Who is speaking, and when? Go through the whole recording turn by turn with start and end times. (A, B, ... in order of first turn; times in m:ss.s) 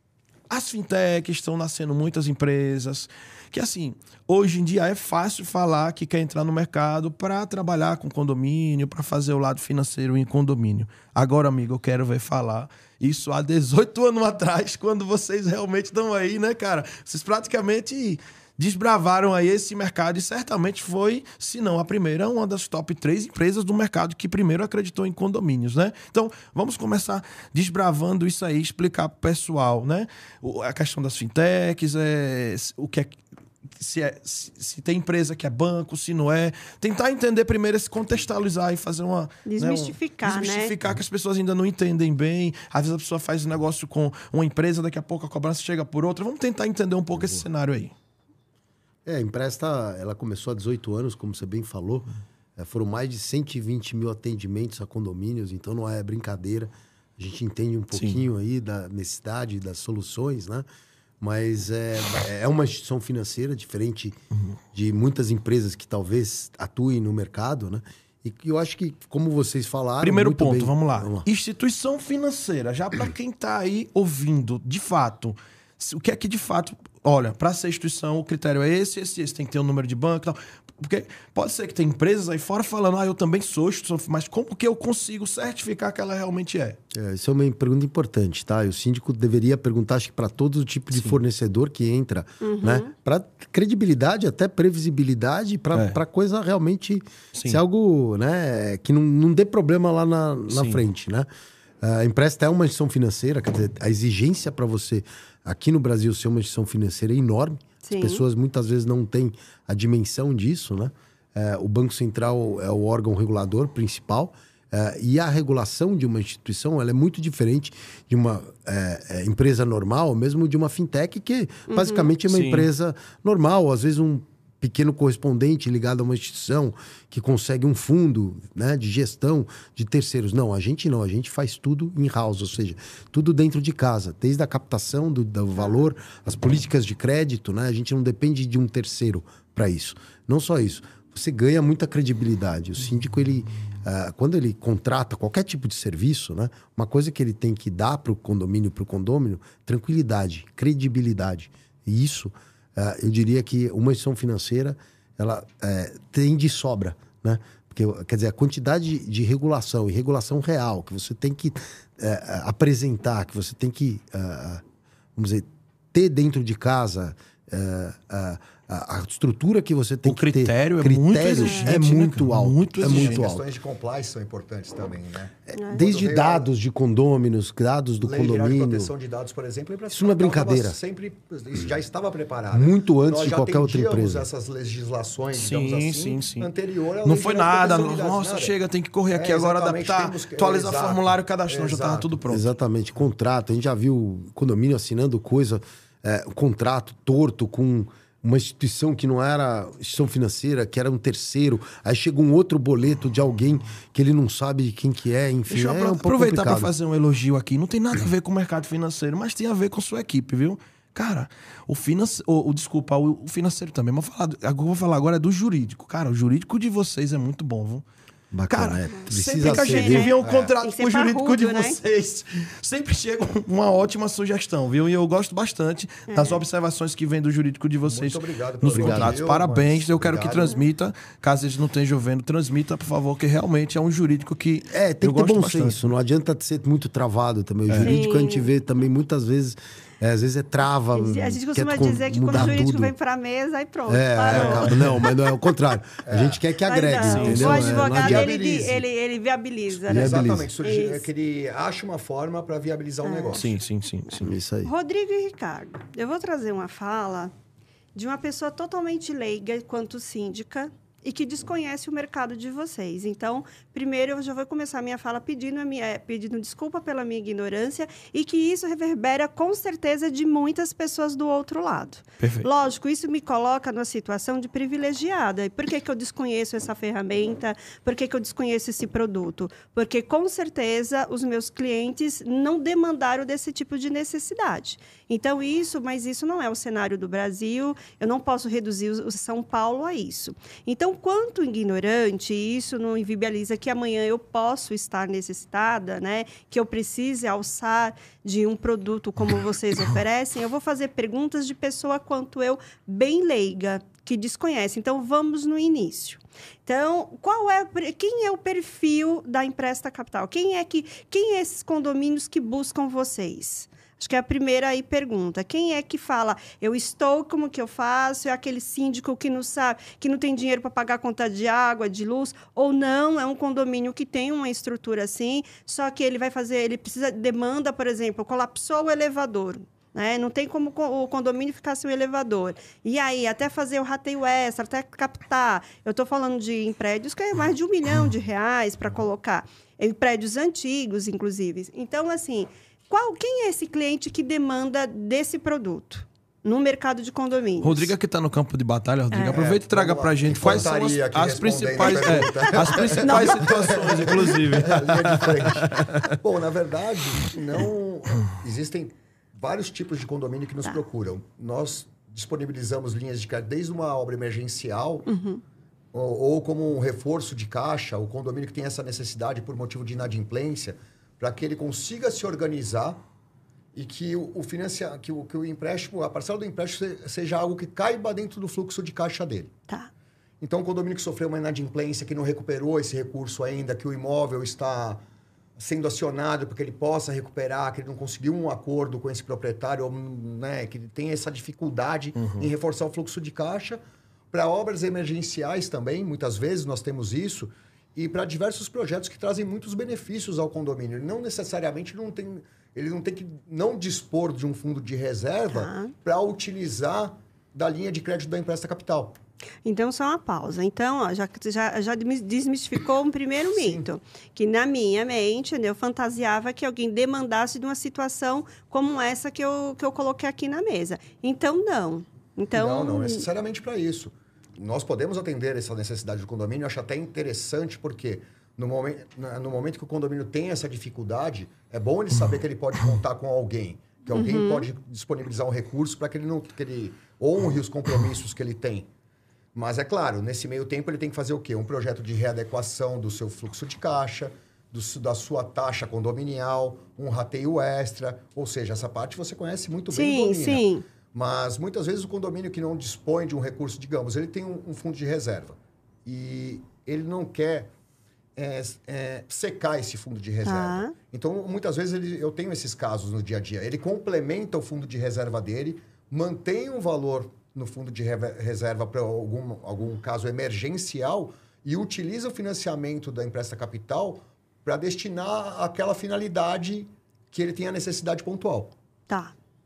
0:00.5-0:33.2 A
0:33.8-0:47.9 A
0:39.4-0:40.7 B
0:49.0-1:00.6 C
0:57.9-0:58.2 A
1:01.2-1:04.2 C
1:04.7-1:11.2 C
1:10.0-1:26.8 A
1:26.9-1:41.3 C
1:30.9-1:31.2 A
1:32.4-1:32.9 B
1:35.7-1:36.0 A
1:37.3-1:37.6 A
1:40.5-1:40.8 A
1:41.8-2:44.6 C
1:47.8-1:48.2 B
2:01.7-2:02.1 B
2:02.3-2:02.7 A
2:45.2-2:53.4 C
2:50.0-2:53.2 A
2:51.4-2:51.7 B
2:52.8-2:56.5 D
2:55.5-2:58.9 C
2:55.6-2:55.8 B
2:58.0-3:08.5 D
2:59.9-3:00.8 C
3:02.5-3:04.3 C
3:05.3-3:06.5 A
3:07.0-3:12.5 A
3:09.1-3:12.2 D
3:12.3-3:26.7 C
3:25.5-3:37.8 A
3:38.3-3:40.1 C
3:38.5-3:55.8 A
3:38.9-3:41.8 B
3:40.2-3:40.5 D
3:46.1-3:46.4 B
3:47.8-3:50.6 D
3:48.7-3:49.2 C
3:54.7-4:02.9 C
3:57.7-3:58.0 A
3:57.8-3:58.5 B
4:00.9-4:05.1 B
4:03.9-4:08.3 C
4:04.3-4:05.0 A
4:06.0-4:06.4 D
4:06.6-4:11.1 B
4:07.0-4:07.7 A
4:07.4-4:08.8 D
4:09.9-4:10.5 C
4:09.9-4:13.5 D
4:13.0-4:13.4 B
4:13.3-4:14.3 A
4:14.1-4:17.3 B
4:14.2-4:14.7 C
4:17.9-5:47.9 B
4:32.2-4:32.5 A
5:47.6-5:56.1 A
5:49.1-5:49.4 B
5:49.3-6:05.1 D
5:51.8-5:54.2 B
6:05.1-6:05.4 B
6:05.9-6:13.0 D
6:13.7-6:19.5 D
6:20.4-6:25.0 D
6:25.6-6:49.2 D
6:32.2-6:32.5 A
6:45.5-6:45.9 B
6:49.6-7:03.3 B
6:53.5-6:53.8 D
7:02.5-7:18.9 D
7:14.1-7:14.6 B
7:19.5-7:37.7 D
7:29.9-7:30.8 B
7:38.4-7:58.7 D
7:40.4-7:40.9 B